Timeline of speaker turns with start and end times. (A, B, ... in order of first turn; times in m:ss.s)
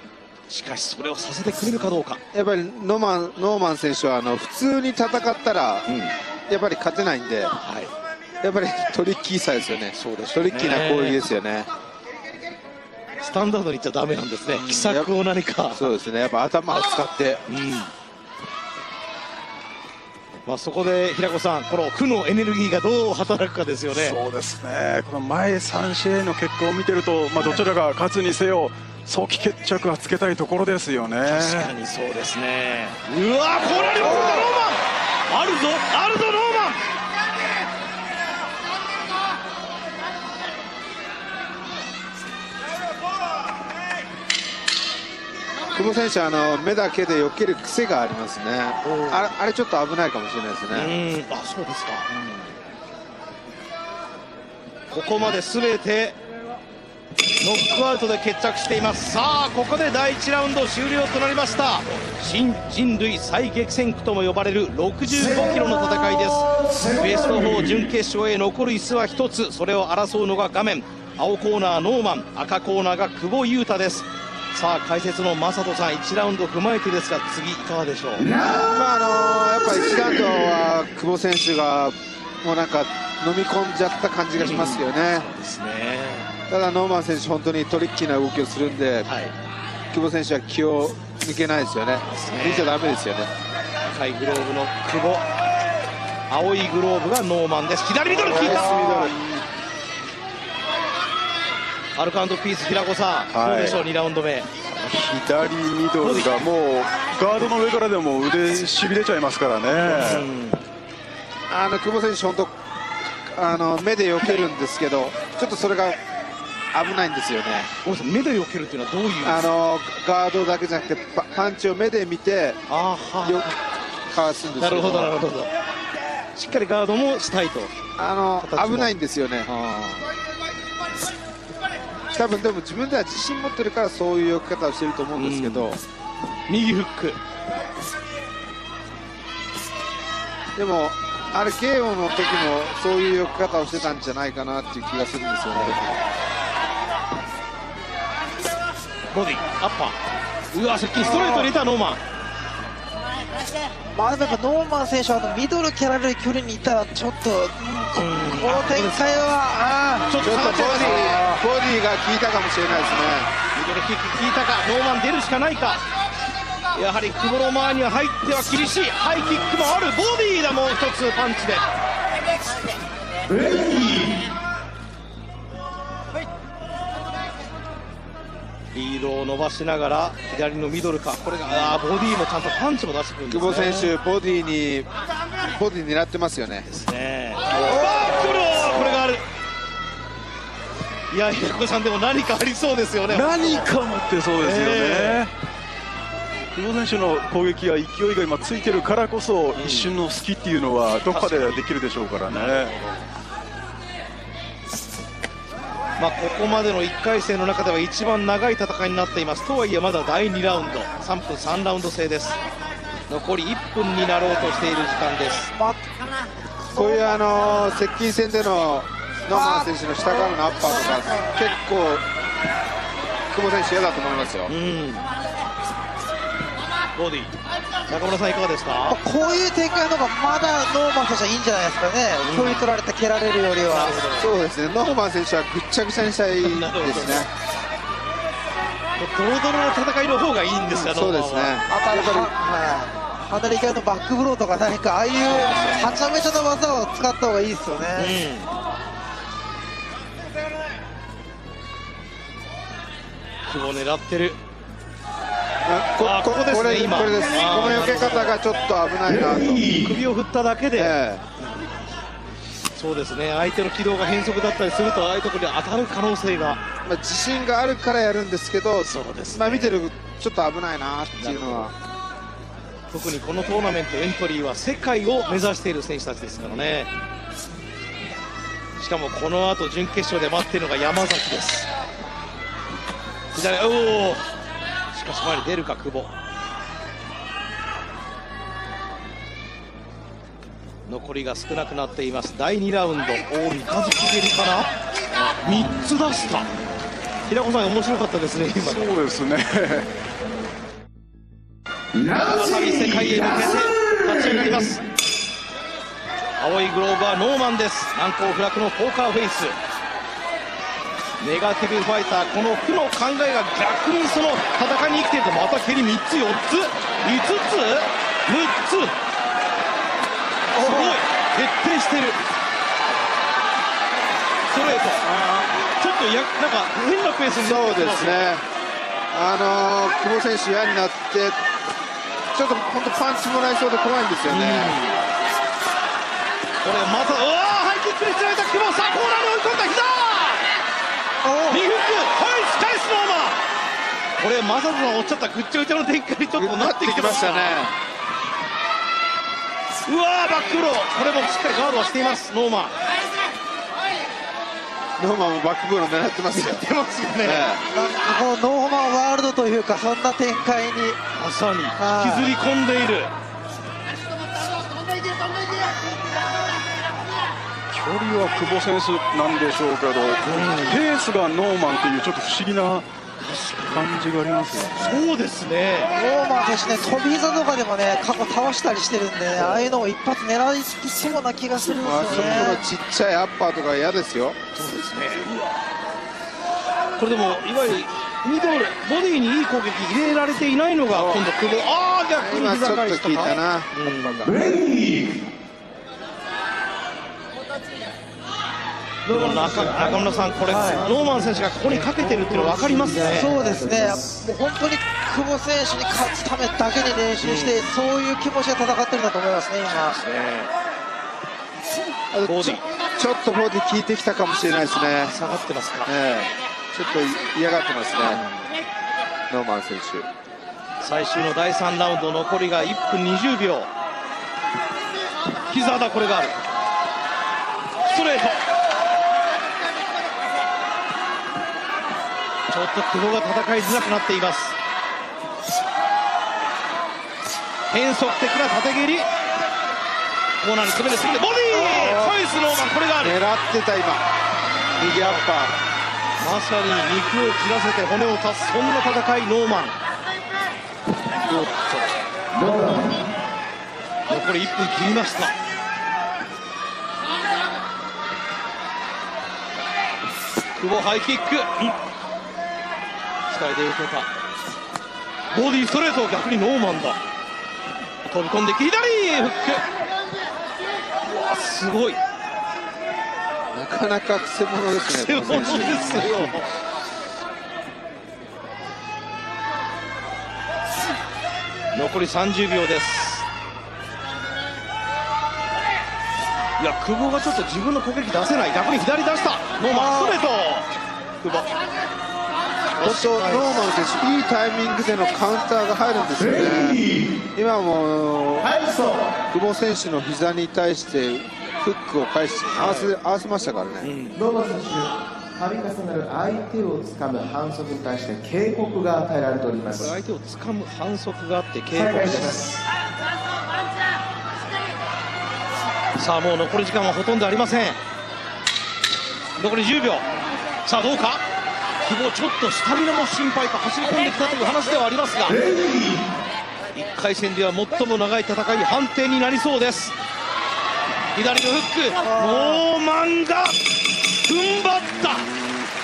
0:00.5-0:02.2 A
0:02.3-0:05.9 B
0:05.9-0:06.1 A
0:06.5-0:07.5 B
0:07.6-0:07.9 A
0:08.4-0:11.7 B
0:10.0-0:11.2 A
0:13.2-0:15.9 A
0:14.5-0:15.1 B
0:15.7-0:17.4 B
0:17.5-0:17.9 A
0:20.4-0:24.2 A
0:23.9-0:31.7 C
0:27.4-0:27.6 A
0:31.3-0:34.8 A
0:34.0-0:34.5 D
0:35.3-0:36.8 A
0:45.7-0:50.9 B
0:48.8-0:49.3 A
0:50.7-0:52.5 A
0:54.9-0:56.2 A
0:57.4-1:18.3 A
1:05.1-1:07.8 E
1:18.2-1:18.6 E
1:18.6-1:25.3 B
1:20.0-1:20.3 E
1:24.4-1:26.3 A
1:26.5-1:29.1 B
1:29.0-1:29.3 A
1:29.9-1:33.3 B
1:32.2-1:32.7 A
1:33.8-1:35.2 A
1:36.3-1:39.0 A
1:38.1-1:39.4 C
1:38.2-1:39.1 B
1:42.0-1:44.5 A
1:43.3-1:43.8 C
1:44.8-1:50.3 C
1:46.0-1:46.4 A
1:49.7-1:50.6 A
1:51.5-1:52.5 B
1:53.2-1:56.0 B
1:54.2-1:54.5 A
1:56.7-1:57.7 B
1:57.8-1:59.5 A
1:59.2-2:02.6 B
2:02.7-2:03.6 A
2:04.1-2:05.1 B
2:04.6-2:05.5 A
2:06.4-2:07.7 A
2:08.0-2:09.5 B
2:08.4-2:08.9 A
2:09.4-2:10.1 A
2:12.1-2:15.8 B
2:15.2-2:15.7 A
2:16.5-2:17.2 A
2:20.6-2:26.0 B
2:29.1-2:30.0 A
2:30.5-2:32.0 A
2:31.0-2:31.5 B
2:33.9-2:40.8 D
2:37.9-2:39.3 A
2:40.1-2:41.3 A
2:40.2-2:43.3 B
2:43.5-2:45.8 A
2:46.7-2:51.6 A
2:53.3-2:54.2 E
2:58.7-3:03.9 A
3:03.3-3:04.9 B
3:05.5-3:06.7 B
3:06.7-3:09.2 A
3:07.5-3:09.0 C
3:11.1-3:13.7 A
3:13.1-3:15.3 C
3:14.4-3:15.2 A
3:16.5-3:22.7 C
3:19.5-3:19.9 A
3:21.0-3:21.7 A
3:22.2-3:23.0 A
3:26.0-3:32.4 A
3:33.1-3:35.5 A
3:35.6-3:35.8 D
3:36.7-3:37.2 D
3:36.7-3:42.0 B
3:39.3-3:41.3 D
3:43.3-3:44.5 B
3:44.5-3:45.1 A
3:47.0-3:47.3 A
3:47.9-3:49.0 A
3:48.9-3:54.0 D
3:52.2-3:52.7 A
3:53.6-3:54.3 A
3:54.2-3:57.3 B
3:56.4-3:57.3 A
3:59.0-4:01.6 A
4:00.7-4:02.3 B
4:01.7-4:08.2 D
4:05.3-4:06.1 A
4:08.0-4:08.5 A
4:13.5-4:14.4 A
4:15.6-4:19.7 B
4:16.0-4:18.4 A
4:19.1-4:19.8 E
4:19.8-4:21.8 A
4:20.8-4:21.2 B
4:22.8-4:26.6 A
4:26.8-4:31.7 B
4:28.8-4:29.8 A
4:31.2-4:31.7 A
4:32.9-4:36.9 A
4:38.8-4:41.7 A
4:43.3-4:44.2 A
4:44.9-4:46.1 A
4:50.9-4:54.7 A
4:55.4-4:56.5 A
4:57.3-4:58.9 A
4:58.6-4:59.9 C
5:02.2-5:04.8 A
5:06.4-5:09.6 A
5:11.2-5:18.9 A
5:20.5-5:22.2 A
5:20.6-5:20.8 D
5:24.5-5:25.1 A
5:25.0-5:25.5 B
5:25.8-5:28.3 A
5:27.4-5:28.4 B
5:29.1-5:31.4 B
5:32.3-5:34.8 B
5:34.3-5:35.0 A
5:36.6-5:40.4 A
5:41.2-5:41.6 D
5:41.5-5:43.4 A
5:44.2-5:47.7 A
5:46.4-5:47.7 B
5:49.8-5:52.7 A
5:55.0-5:56.6 B
5:56.3-5:57.6 A
5:57.2-5:57.6 B
5:57.7-6:01.0 D
6:01.1-6:03.1 A
6:01.8-6:02.3 D
6:07.7-6:12.9 C
6:10.2-6:10.8 A
6:13.2-6:14.0 A
6:13.6-6:15.1 C
6:14.6-6:15.9 A
6:15.9-6:22.6 D
6:21.6-6:24.4 B
6:22.0-6:22.6 A
6:24.5-6:25.5 A
6:27.0-6:34.3 A
6:32.2-6:33.7 B
6:34.2-6:35.2 E
6:39.0-6:44.2 E
6:39.1-6:44.0 A
6:43.0-6:50.0 D
6:47.2-6:47.7 A
6:49.8-6:50.5 A
6:52.1-6:55.2 B
6:52.2-6:52.6 A
6:55.1-6:55.9 A
6:55.8-6:58.2 B
6:58.0-6:58.3 A
6:59.3-7:00.1 B
7:00.8-7:03.7 A
7:05.5-7:06.4 A
7:07.8-7:08.4 A
7:12.5-7:14.6 A
7:17.7-7:19.1 A
7:20.4-7:23.2 A
7:21.5-7:22.2 B
7:23.0-7:24.0 B
7:24.8-7:25.5 B
7:24.8-7:25.3 A
7:26.2-7:29.8 A
7:31.1-7:31.8 A
7:32.4-7:32.7 E
7:34.1-7:35.3 A
7:40.6-7:41.8 A
7:43.3-7:44.1 A
7:45.3-7:47.0 A
7:48.0-7:49.6 A
7:51.0-7:52.0 A
7:53.5-7:56.3 B
7:54.9-7:56.5 A
8:01.7-8:03.2 A
8:06.6-8:10.6 A
8:09.7-8:10.2 D
8:11.2-8:11.5 A
8:12.8-8:13.8 A
8:12.8-8:16.8 B
8:16.1-8:17.1 E
8:17.3-8:18.5 B
8:18.4-8:19.1 E
8:19.3-8:23.9 B
8:22.5-8:22.9 A
8:23.8-8:24.2 A
8:24.2-8:29.9 E
8:29.7-8:32.6 A
8:31.7-8:32.4 E
8:36.0-8:37.8 A
8:39.4-8:40.0 A
8:40.6-8:41.2 A
8:41.8-8:45.4 A
8:45.3-8:46.0 E
8:46.7-8:49.9 A
8:51.1-8:53.6 A
8:52.0-8:52.6 D
8:54.2-8:55.3 A